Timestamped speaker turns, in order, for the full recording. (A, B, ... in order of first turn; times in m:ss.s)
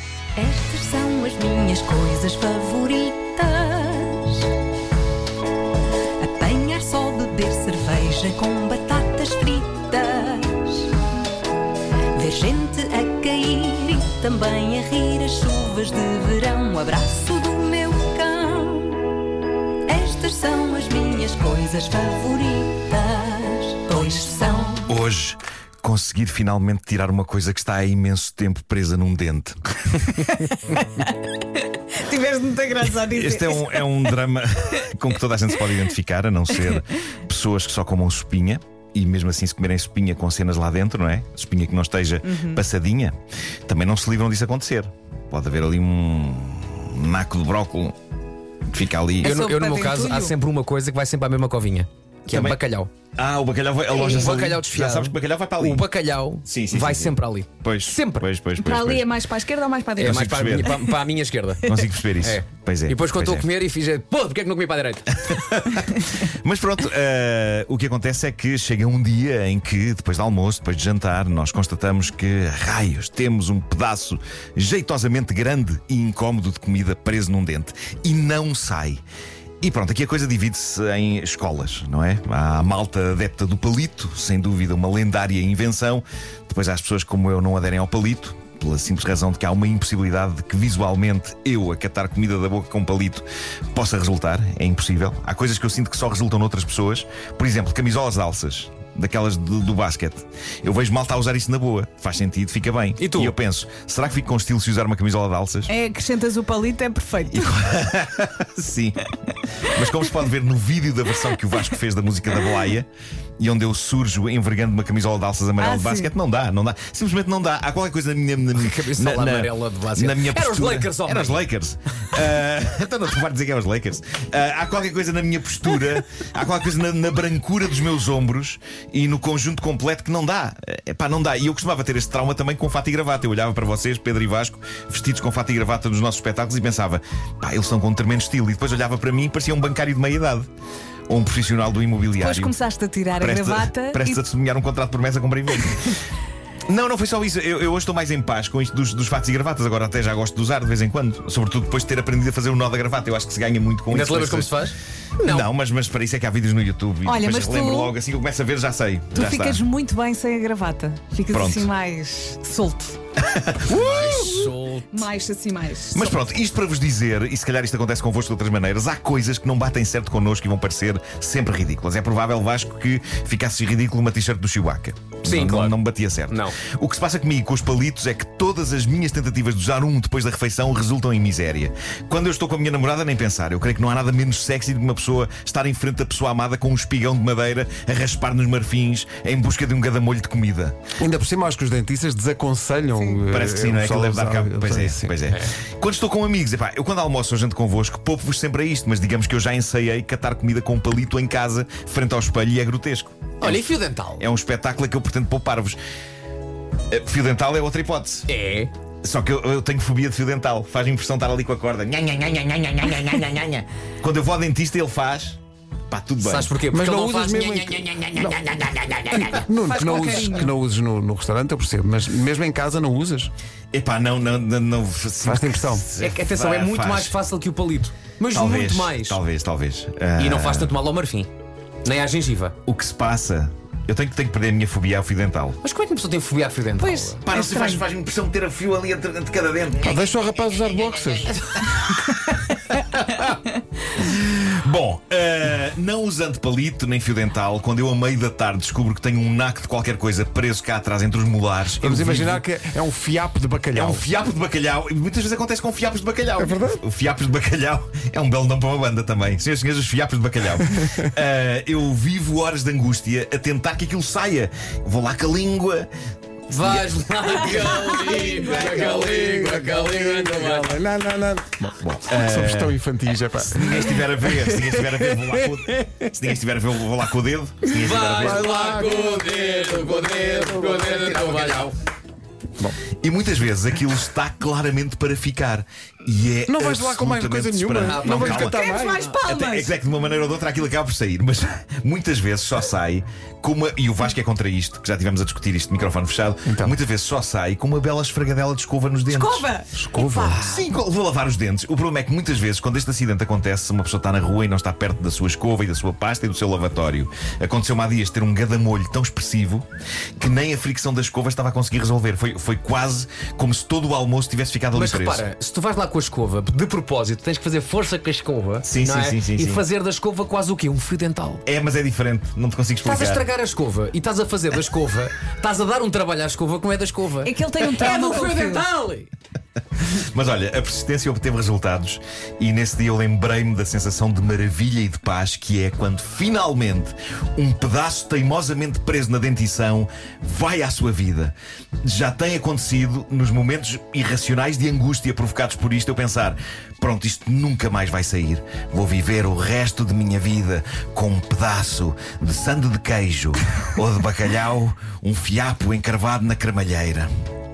0:00.4-0:04.5 A
0:06.2-0:10.9 A
0:12.2-0:19.1 A
0:19.9-0:24.9 A
0:24.9-0:29.8 B
0:30.2-0:33.9 C
0:33.1-0:48.0 B
0:42.3-0:42.6 C
0:48.7-0:49.3 B
0:49.2-0:50.3 C
0:49.2-0:52.9 D
0:52.3-0:52.6 B
0:53.2-0:55.8 B
0:54.0-0:58.3 D
0:56.4-0:59.1 B
0:58.6-1:00.8 C
1:00.0-1:00.8 B
1:00.0-1:05.3 D
1:01.6-1:03.5 B
1:05.2-1:19.0 B
1:19.6-1:45.7 B
1:43.0-1:43.3 D
1:45.7-1:47.6 C
1:47.3-1:49.1 B
1:49.6-2:20.5 B
1:55.6-1:56.1 C
1:58.6-2:01.4 D
2:21.1-2:22.6 B
2:22.2-2:24.2 C
2:23.2-2:26.0 B
2:26.7-2:34.6 B
2:33.9-2:35.5 D
2:35.2-2:39.6 B
2:37.1-2:37.9 C
2:39.1-2:43.0 C
2:41.3-2:41.7 B
2:43.3-2:44.2 B
2:43.7-2:45.1 D
2:44.1-2:46.2 C
2:45.9-3:10.8 B
2:55.2-2:55.8 D
2:56.3-2:56.6 D
3:11.0-3:15.1 E
3:13.3-3:25.8 B
3:23.4-3:24.2 D
3:26.9-3:28.3 B
3:28.3-3:28.7 D
3:29.0-3:36.5 B
3:36.2-3:38.0 D
3:36.7-3:38.4 E
3:38.0-3:39.5 B
3:39.1-3:43.3 E
3:39.5-3:40.6 C
3:43.7-3:47.2 B
3:45.2-3:45.9 E
3:46.0-3:49.2 D
3:48.3-3:50.7 B
3:50.2-3:51.3 D
3:51.8-3:52.6 D
3:52.7-3:55.6 B
3:55.6-3:57.2 D
3:56.8-3:57.8 C
3:57.2-4:00.0 B
3:59.8-4:01.4 E
4:04.0-4:12.4 B
4:11.8-4:14.0 E
4:13.8-4:25.9 B
4:16.4-4:16.8 E
4:26.5-4:30.8 D
4:26.5-4:28.0 B
4:28.0-4:36.1 E
4:31.8-4:32.8 B
4:33.4-4:38.7 B
4:37.8-4:41.8 D
4:38.1-4:41.5 E
4:43.0-4:48.7 B
4:46.5-4:49.0 E
4:47.8-4:49.2 D
4:48.4-4:49.7 C
4:49.2-4:59.5 B
4:56.5-4:56.8 E
4:59.1-5:00.5 C
4:59.7-5:00.5 E
5:00.3-5:09.7 B
5:10.2-5:15.3 B
5:14.7-5:21.4 D
5:18.6-5:19.6 B
5:21.5-5:23.2 B
5:22.8-5:29.1 D
5:27.2-5:28.6 C
5:29.8-5:57.1 B